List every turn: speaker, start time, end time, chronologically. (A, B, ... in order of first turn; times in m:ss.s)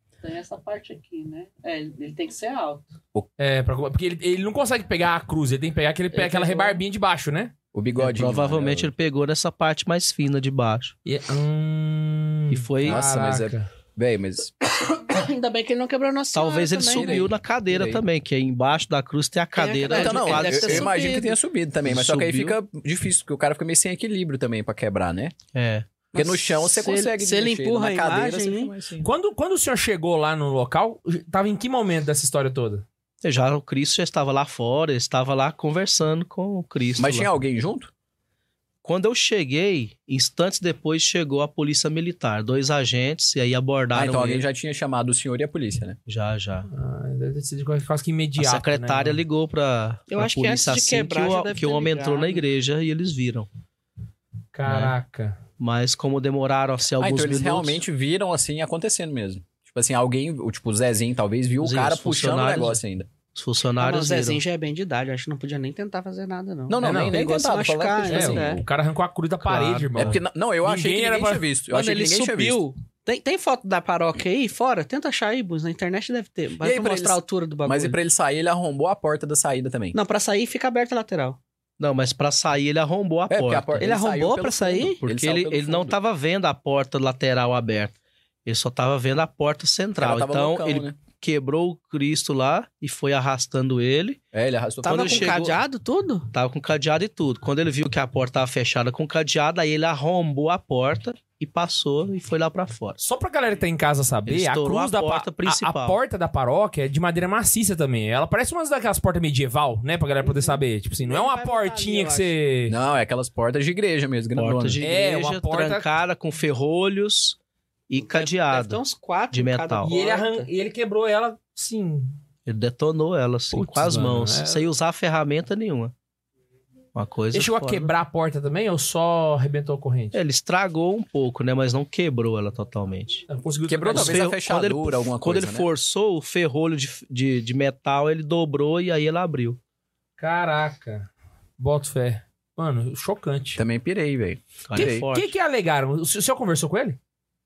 0:00.2-0:02.9 A
0:03.4-0:07.5 B
0:06.1-0:06.8 A
0:07.7-0:08.9 C
0:08.0-0:10.9 D
0:11.0-0:13.7 B
0:12.5-0:13.0 D
0:12.8-0:14.5 C
0:14.9-0:17.3 A
0:16.3-0:20.9 D
0:16.9-0:18.0 C
0:19.5-0:21.4 A
0:19.9-0:25.3 C
0:21.8-0:22.6 D
0:25.5-0:25.9 D
0:26.1-0:28.7 A
0:26.1-0:29.1 C
0:29.0-0:32.8 B
0:33.2-0:37.3 D
0:37.0-0:37.9 C
0:38.8-0:44.4 D
0:43.9-0:46.0 C
0:46.1-0:46.7 D
0:46.7-0:49.2 B
0:48.4-0:53.5 D
0:50.1-0:52.4 A
0:54.5-0:55.4 B
0:54.6-0:54.9 D
0:55.6-0:57.8 D
0:57.0-1:03.1 C
1:01.6-1:02.8 D
1:03.3-1:04.4 D
1:03.8-1:08.6 A
1:06.7-1:08.6 C
1:06.8-1:07.2 B
1:08.1-1:11.4 B
1:09.4-1:10.1 D
1:10.0-1:12.6 C
1:11.7-1:18.0 A
1:16.6-1:20.0 C
1:19.9-1:21.4 A
1:21.8-1:23.9 D
1:23.3-1:26.0 C
1:23.8-1:25.0 A
1:25.0-1:27.9 D
1:28.4-1:34.2 D
1:30.0-1:31.0 C
1:34.3-1:35.4 C
1:34.8-1:36.3 A
1:34.8-1:35.6 D
1:36.3-1:43.0 D
1:43.0-1:52.8 B
1:44.2-1:46.0 D
1:50.2-1:52.3 A
1:52.7-1:54.8 C
1:54.4-1:57.4 D
1:54.8-1:55.8 B
1:57.9-1:58.8 D
1:58.0-2:00.5 A
1:59.3-1:59.9 D
1:59.8-2:02.2 B
2:02.4-2:05.9 D
2:03.5-2:04.7 B
2:06.9-2:07.9 D
2:07.3-2:10.2 B
2:10.1-2:13.2 D
2:13.3-2:14.3 B
2:13.7-2:15.7 C
2:13.9-2:19.6 D
2:20.2-2:23.6 B
2:23.6-2:25.0 C
2:24.7-2:25.3 D
2:24.8-2:27.0 B